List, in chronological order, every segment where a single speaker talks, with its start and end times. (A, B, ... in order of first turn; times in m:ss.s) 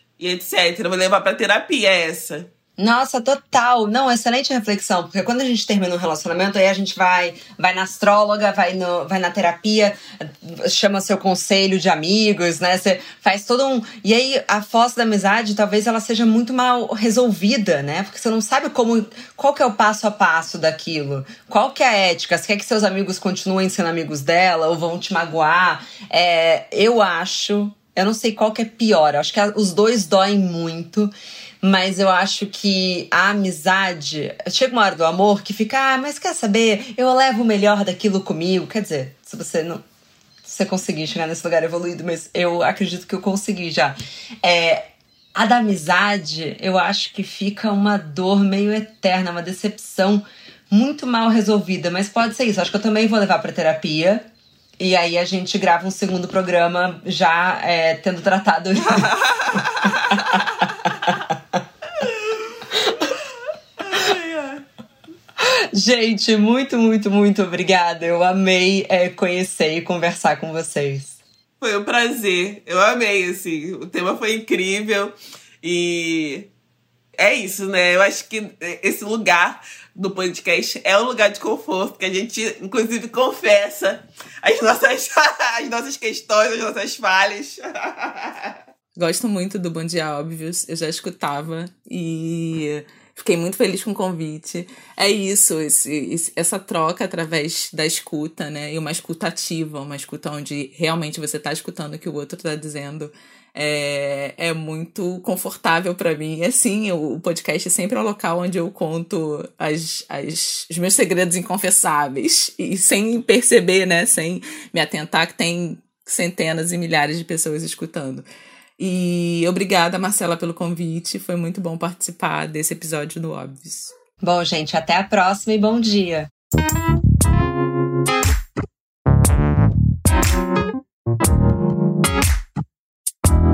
0:00.2-0:02.5 A
0:02.8-0:39.8 B
0:40.4-0:54.2 B
0:54.8-1:01.6 B
0:58.9-1:00.7 A
1:02.0-1:03.2 A
1:02.8-1:03.1 B
1:03.8-1:04.6 A
1:05.4-1:11.2 B
1:11.6-1:16.5 A
1:17.2-1:28.6 A
1:29.0-1:58.2 C
1:58.8-2:03.9 C
2:04.2-2:06.3 B